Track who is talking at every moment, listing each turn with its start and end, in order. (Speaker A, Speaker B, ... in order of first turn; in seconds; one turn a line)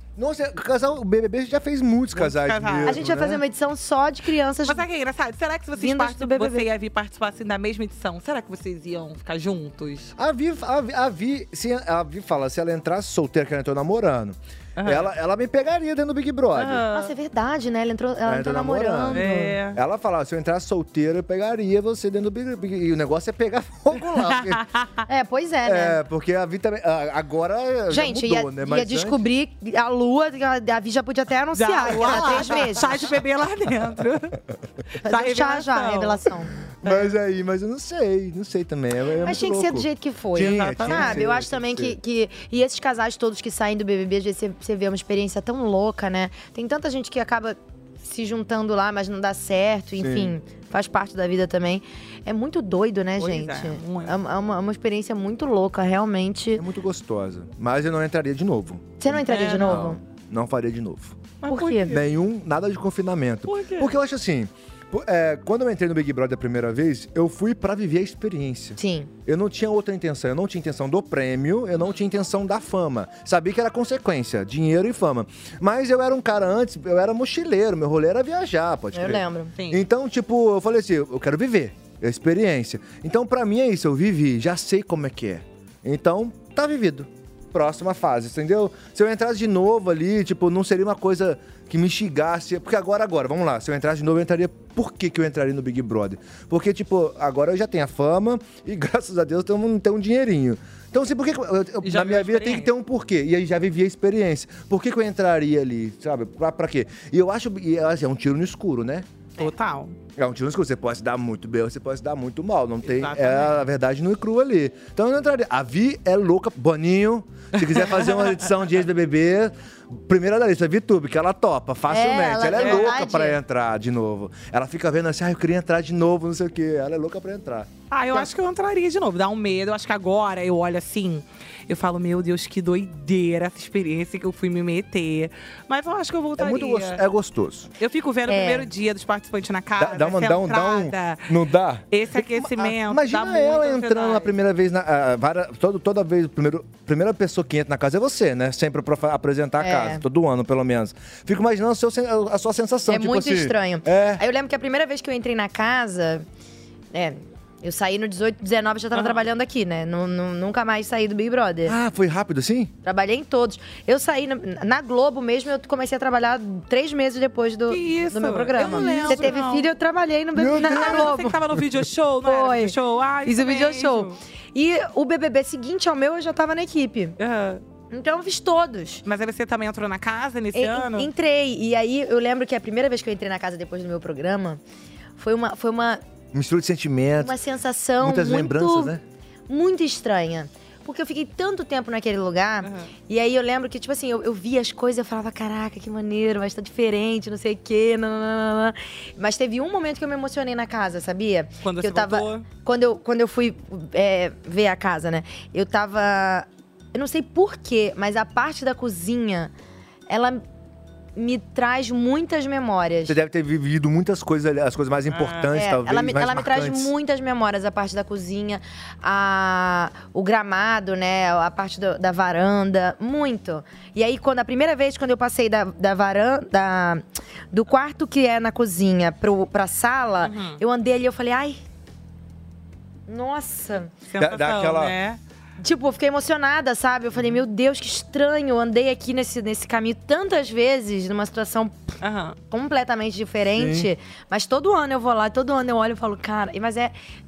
Speaker A: 0.2-3.4
Speaker B: 2.1-3.0
Speaker C: 2.9-4.8
Speaker B: 4.7-10.2
Speaker C: 5.8-6.7
Speaker A: 10.2-16.9
Speaker B: 14.8-15.1
Speaker B: 16.6-17.1
Speaker C: 16.9-19.6
Speaker A: 18.2-24.6
Speaker B: 19.1-19.8
Speaker B: 24.2-24.9
Speaker C: 25.1-26.0
Speaker A: 25.6-29.2
Speaker C: 27.9-32.9
Speaker B: 31.6-34.4
Speaker A: 32.0-32.7
Speaker B: 35.0-36.2
Speaker C: 35.0-36.5
Speaker A: 36.8-42.0
Speaker B: 36.8-37.1
Speaker C: 39.2-56.6
Speaker B: 40.4-41.2
Speaker A: 50.0-50.4
Speaker B: 53.2-54.1
Speaker A: 56.5-61.2
Speaker C: 59.0-60.0
Speaker B: 59.3-59.9
Speaker B: 61.4-62.0
Speaker C: 61.5-61.9
Speaker A: 61.9-109.1
Speaker B: 63.5-63.9
Speaker C: 68.8-69.1
Speaker C: 78.9-79.5
Speaker B: 79.6-79.8
Speaker B: 101.8-102.7
Speaker B: 109.4-110.0
Speaker A: 110.2-127.7
Speaker B: 112.9-113.6
Speaker B: 117.6-118.4
Speaker C: 121.9-123.4
Speaker B: 122.6-122.9
Speaker B: 127.9-137.0
Speaker A: 136.4-137.7
Speaker B: 137.8-141.4
Speaker C: 138.3-138.7
Speaker A: 139.8-154.2
Speaker B: 141.9-144.3
Speaker C: 149.6-150.0
Speaker C: 152.9-156.2
Speaker C: 156.9-161.8
Speaker B: 158.9-159.2
Speaker A: 161.7-162.7
Speaker C: 162.8-171.4
Speaker B: 167.7-169.7
Speaker A: 168.6-169.3
Speaker A: 170.3-171.6
Speaker B: 170.6-174.2
Speaker C: 172.2-172.8
Speaker C: 173.3-177.2
Speaker B: 177.2-177.6
Speaker C: 177.9-179.0
Speaker B: 179.1-181.1
Speaker C: 180.5-184.6
Speaker C: 185.2-186.0
Speaker A: 186.3-187.4
Speaker C: 187.2-188.9
Speaker A: 188.0-189.0
Speaker C: 189.5-209.5
Speaker B: 192.6-192.9
Speaker B: 201.6-202.5
Speaker C: 210.1-210.4
Speaker C: 211.2-213.2
Speaker A: 213.1-216.9
Speaker B: 215.1-215.5
Speaker C: 215.5-231.6
Speaker B: 230.2-230.6
Speaker C: 233.1-233.9
Speaker B: 234.1-235.2
Speaker A: 234.2-235.0
Speaker C: 235.6-241.8
Speaker B: 242.0-242.4
Speaker C: 242.5-246.9
Speaker A: 243.5-243.9